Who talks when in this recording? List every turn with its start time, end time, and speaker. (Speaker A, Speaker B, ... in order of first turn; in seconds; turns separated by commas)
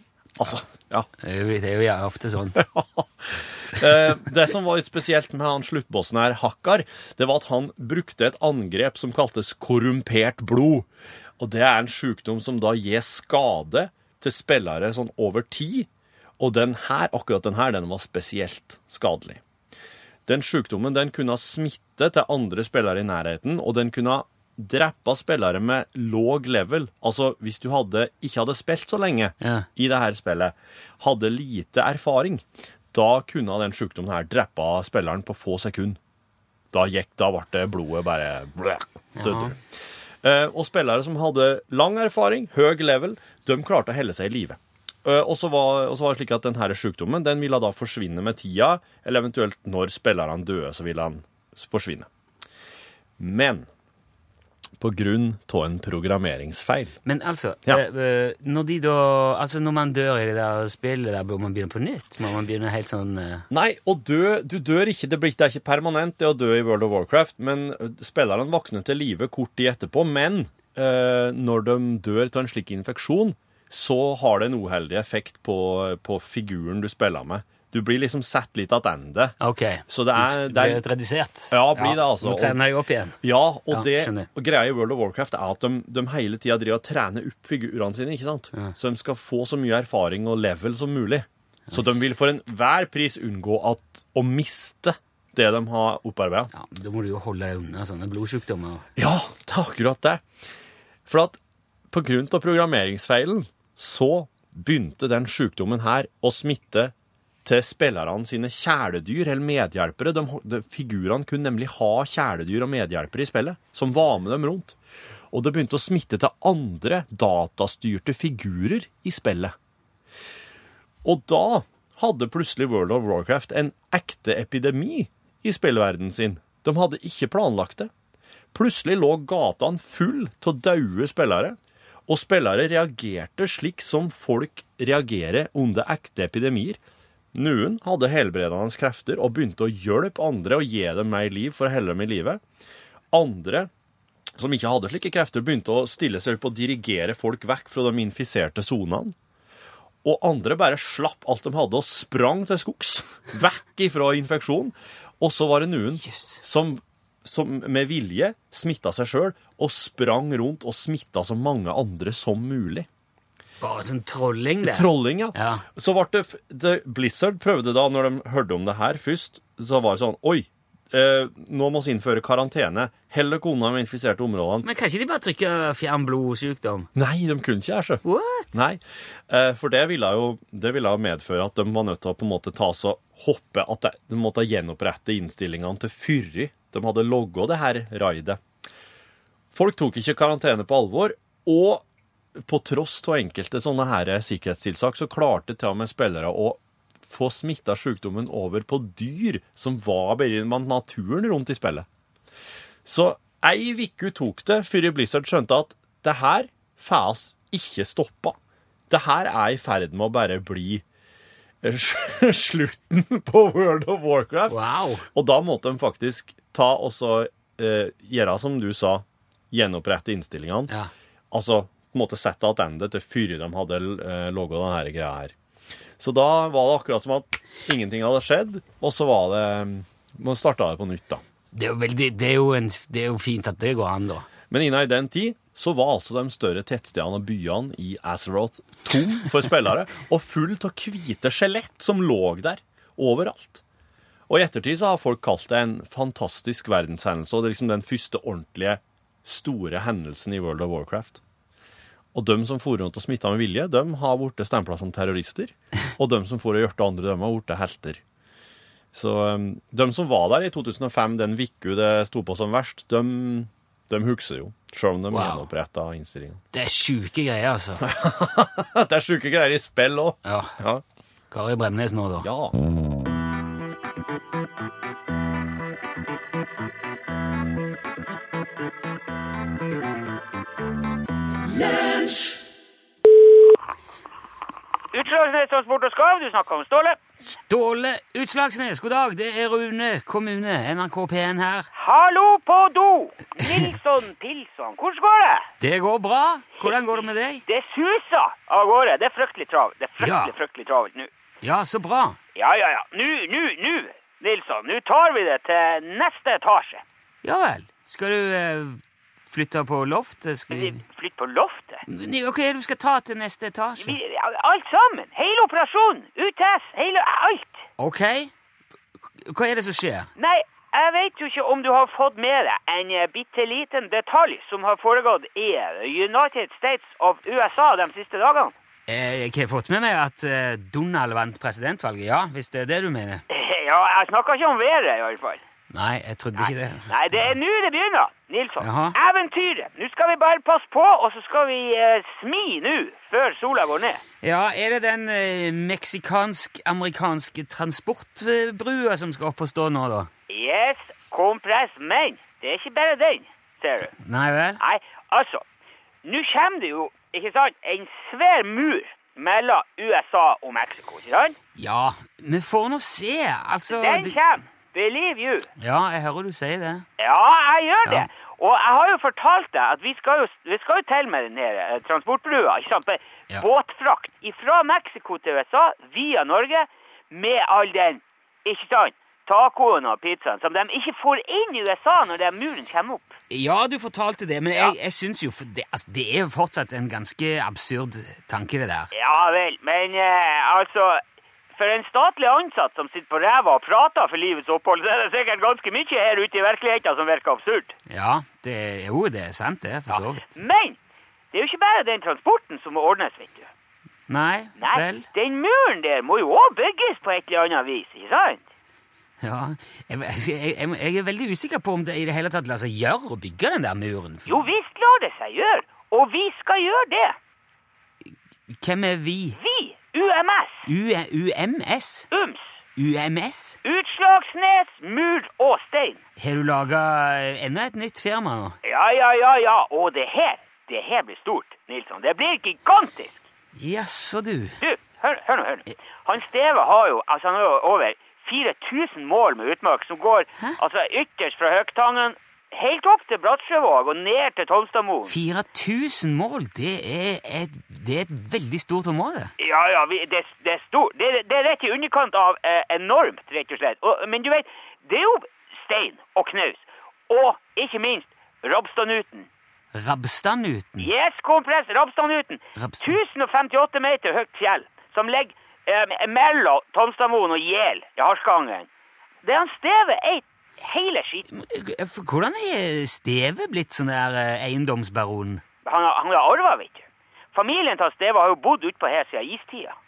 Speaker A: 0.4-1.1, Speaker B: 1.2-2.6, Speaker A: 2.5-10.9, Speaker A: 11.4-19.4, Speaker A: 20.3-36.0, Speaker B: 29.4-29.7, Speaker A: 36.7-39.6, Speaker B: 39.2-39.5, Speaker A: 40.2-52.1, Speaker A: 53.2-53.7, Speaker A: 54.8-57.0, Speaker B: 57.0-63.5, Speaker A: 63.5-79.3, Speaker B: 79.4-83.2, Speaker A: 79.9-80.8, Speaker A: 81.5-82.6, Speaker A: 83.2-96.5, Speaker B: 83.7-84.3, Speaker B: 96.5-98.9, Speaker A: 99.0-100.2, Speaker A: 101.1-101.4, Speaker A: 101.9-106.9, Speaker A: 107.5-114.8, Speaker A: 115.3-119.5, Speaker A: 121.0-127.9, Speaker A: 128.5-136.8, Speaker A: 137.3-142.4, Speaker A: 143.1-143.7, Speaker A: 144.4-149.2, Speaker A: 150.0-162.9, Speaker B: 156.0-156.4, Speaker B: 163.6-165.6, Speaker A: 164.6-174.7, Speaker B: 174.6-176.9, Speaker A: 176.9-188.4, Speaker B: 178.0-178.5, Speaker A: 189.5-191.8, Speaker A: 192.4-201.9, Speaker A: 202.8-208.4, Speaker A: 208.9-210.8, Speaker A: 211.6-214.6, Speaker B: 214.5-215.1, Speaker A: 215.1-220.7, Speaker A: 221.3-225.3, Speaker A: 226.0-231.2, Speaker B: 231.5-234.3, Speaker A: 234.5-243.6, Speaker A: 244.3-251.2, Speaker A: 252.1-258.0, Speaker A: 258.9-266.4, Speaker B: 265.1-265.5, Speaker B: 266.5-267.8, Speaker A: 267.8-270.8, Speaker B: 270.2-270.6, Speaker B: 271.3-272.3, Speaker A: 272.2-272.6, Speaker C: 284.9-287.0, Speaker B: 287.3-291.7, Speaker C: 291.8-295.5, Speaker B: 295.6-297.4, Speaker C: 297.5-301.1, Speaker B: 300.0-300.3, Speaker B: 301.4-302.2, Speaker C: 302.4-306.8, Speaker B: 307.2-310.8, Speaker C: 310.5-311.8, Speaker B: 311.9-314.0, Speaker C: 313.8-317.6, Speaker B: 317.8-318.3, Speaker B: 319.2-320.1, Speaker C: 320.2-328.5, Speaker B: 328.9-333.2, Speaker C: 333.3-335.4, Speaker B: 335.7-336.9, Speaker C: 336.4-344.0, Speaker B: 338.6-339.0, Speaker B: 344.2-350.1, Speaker C: 350.3-353.9, Speaker B: 354.0-354.6, Speaker C: 354.6-355.4, Speaker C: 356.1-361.4, Speaker B: 361.6-364.2, Speaker C: 363.7-365.5, Speaker B: 365.6-366.9, Speaker C: 367.0-383.2, Speaker B: 383.3-388.9, Speaker C: 388.9-391.0, Speaker C: 391.6-397.7, Speaker B: 397.9-400.4, Speaker C: 399.9-400.8, Speaker C: 401.3-403.5, Speaker B: 404.1-405.1, Speaker C: 404.6-408.4, Speaker B: 409.2-414.4, Speaker C: 414.3-417.2, Speaker B: 418.1-419.4, Speaker C: 419.4-420.7, Speaker B: 420.7-422.1, Speaker C: 422.1-422.4, Speaker B: 422.8-423.6, Speaker C: 423.6-426.0, Speaker B: 426.2-428.6, Speaker C: 428.6-433.2, Speaker B: 433.6-434.6, Speaker C: 434.6-445.1, Speaker B: 445.1-449.3, Speaker C: 449.4-459.3, Speaker B: 459.7-460.9, Speaker C: 460.8-468.7, Speaker B: 462.6-463.0, Speaker C: 469.2-471.3, Speaker B: 471.3-475.4, Speaker C: 475.6-479.8